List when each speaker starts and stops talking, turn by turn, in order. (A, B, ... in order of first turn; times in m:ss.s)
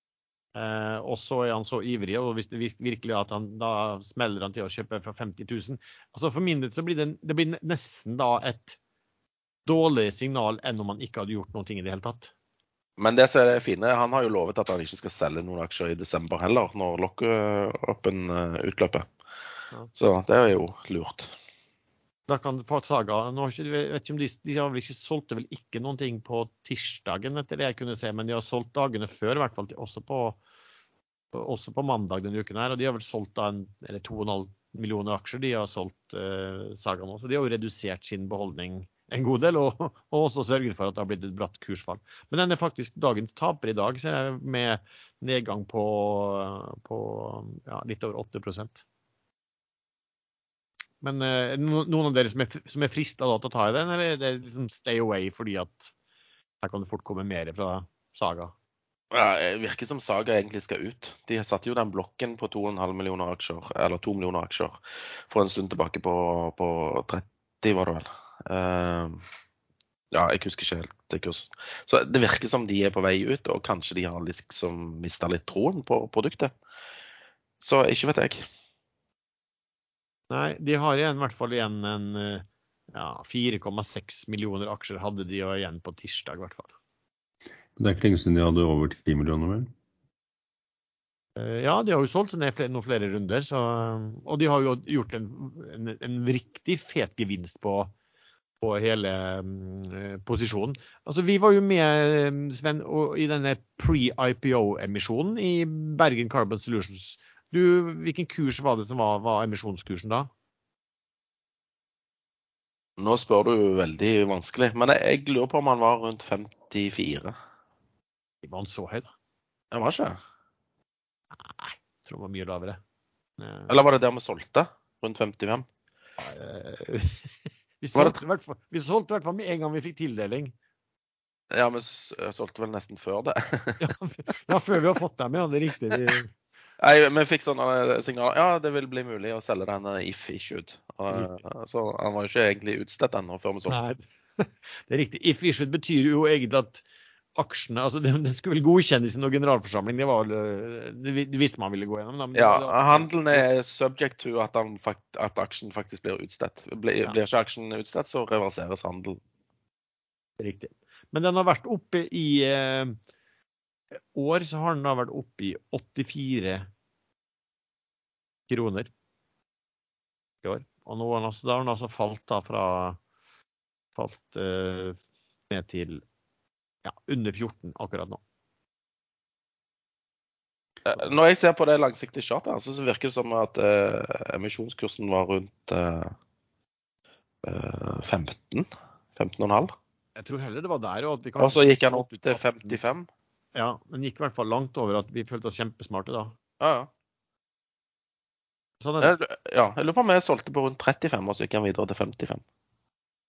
0:00.5-0:08.8 A
0:09.6-0:12.3 A
0:13.0-0:19.1 B
0:19.9-0:21.3 B
0:22.3-0:30.4 A
0:31.3-0:48.8 A
0:51.0-0:55.9 A
0:56.6-0:58.5 A
0:59.1-1:09.2 B
1:10.1-1:16.5 B
1:17.6-1:18.4 B
1:20.3-1:26.7 A
1:27.8-1:29.7 C
1:31.4-1:37.9 A
1:38.6-1:50.3 A
1:53.0-1:57.4 B
1:58.4-1:59.1 A
1:59.7-2:00.2 B
2:01.3-2:02.8 A
2:03.4-2:03.8 A
2:03.7-2:05.6 B
2:06.2-2:07.3 A
2:07.8-2:10.5 A
2:11.5-2:13.9 B
2:13.8-2:16.3 A
2:16.8-2:23.8 B
2:23.7-2:26.8 A
2:27.4-2:33.5 A
2:32.3-2:39.2 B
2:40.4-2:43.0 A
2:44.1-2:46.7 A
2:48.5-2:48.9 A
2:50.4-2:53.0 A
2:53.9-2:55.0 A
2:55.5-2:56.0 A
2:56.8-2:58.2 A
3:00.8-3:06.1 B
3:07.4-3:09.7 B
3:10.2-3:12.7 A
3:11.4-3:13.1 B
3:13.5-3:16.4 A
3:16.6-3:16.9 B
3:18.8-3:19.1 A
3:19.0-3:22.4 B